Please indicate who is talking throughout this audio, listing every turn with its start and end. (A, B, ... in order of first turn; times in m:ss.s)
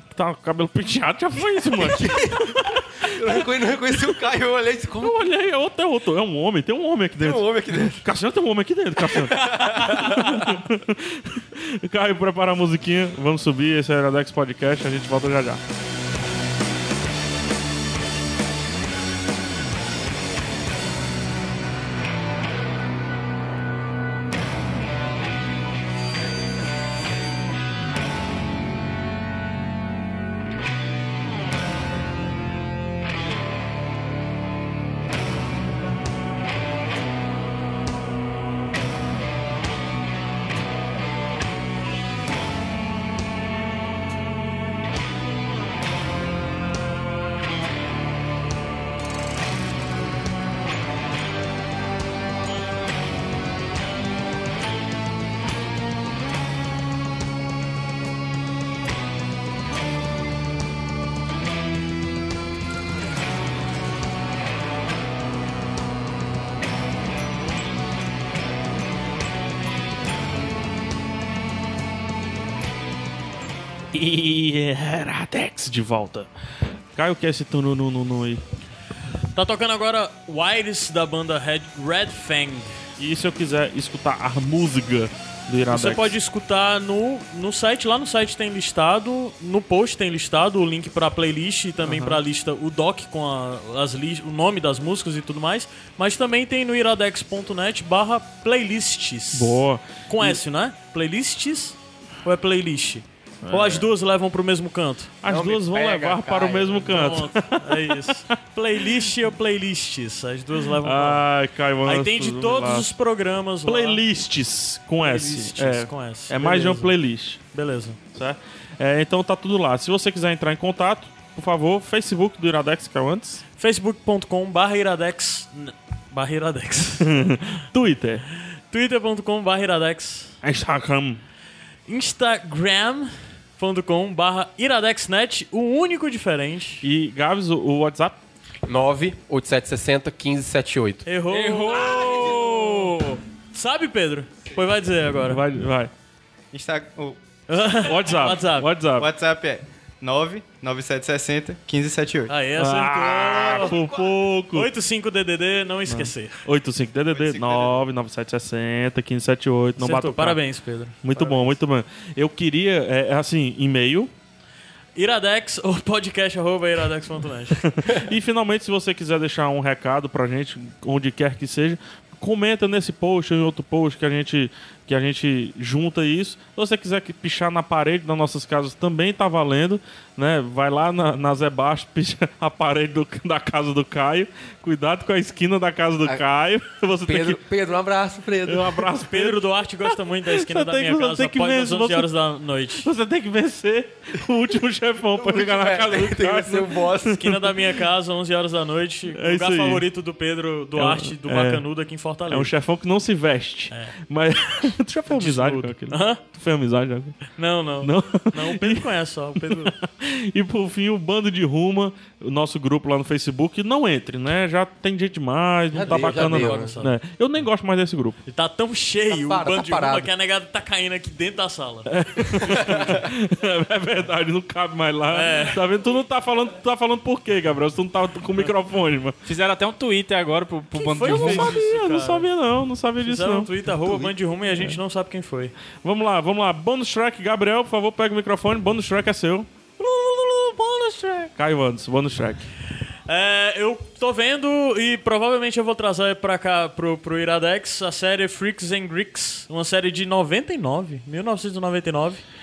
0:00.1-0:03.1 A
0:01.8-0:05.2 B
0:05.0-0:15.6 A
0:07.2-0:08.0 B
0:09.4-0:10.2 B
0:09.4-0:09.8 C
1:13.9-1:16.3 A
1:16.9-1:18.4 A
1:19.3-1:22.8 D
1:23.0-1:26.1 A
1:25.7-1:45.2 D
1:31.8-1:32.2 A
1:39.3-1:40.4 A
1:43.4-1:43.9 A
1:45.2-1:48.0 A
1:45.2-1:47.1 B
1:46.9-1:51.3 D
1:50.8-1:52.9 A
1:51.8-1:54.0 D
1:53.6-1:57.4 A
1:55.0-1:57.0 D
1:57.5-1:58.0 D
1:58.1-2:03.4 A
2:03.6-2:07.2 D
2:07.0-2:08.2 A
2:08.7-2:10.4 D
2:10.4-2:11.2 A
2:11.9-2:16.8 D
2:16.8-2:18.2 A
2:18.6-2:21.1 B
2:21.0-2:25.4 D
2:21.3-2:23.2 C
2:25.3-2:25.9 A
2:26.5-2:27.2 E
2:27.5-2:28.7 D
2:27.8-2:29.1 A
2:28.9-2:32.3 E
2:32.3-2:33.8 D
2:32.6-2:34.7 A
2:34.5-2:36.4 D
2:35.9-2:40.4 A
2:37.1-2:37.8 E
2:39.8-2:41.6 D
2:41.0-2:44.1 A
2:45.0-2:47.7 D
2:47.7-3:07.4 A
3:07.1-3:08.9 B
3:08.4-3:12.1 A
3:09.0-3:12.9 D
3:12.8-3:17.3 A
3:15.2-3:17.2 B
3:17.2-3:22.5 D
3:19.1-3:19.8 A
3:20.8-3:21.6 A
3:22.3-3:28.9 A
3:25.1-3:26.2 D
3:27.4-3:29.8 D
3:29.4-3:38.2 A
3:35.7-3:36.8 B
3:35.9-3:37.0 D
3:38.3-3:41.9 D
3:39.1-3:40.1 B
3:41.9-3:49.2 A
3:42.5-3:42.9 B
3:45.1-3:45.6 D
3:49.2-3:51.6 C
3:50.8-3:52.3 D
3:51.0-3:54.8 A
3:53.0-3:55.5 D
3:55.8-3:59.5 A
3:59.8-4:01.3 D
4:01.3-4:02.5 A
4:03.1-4:12.2 D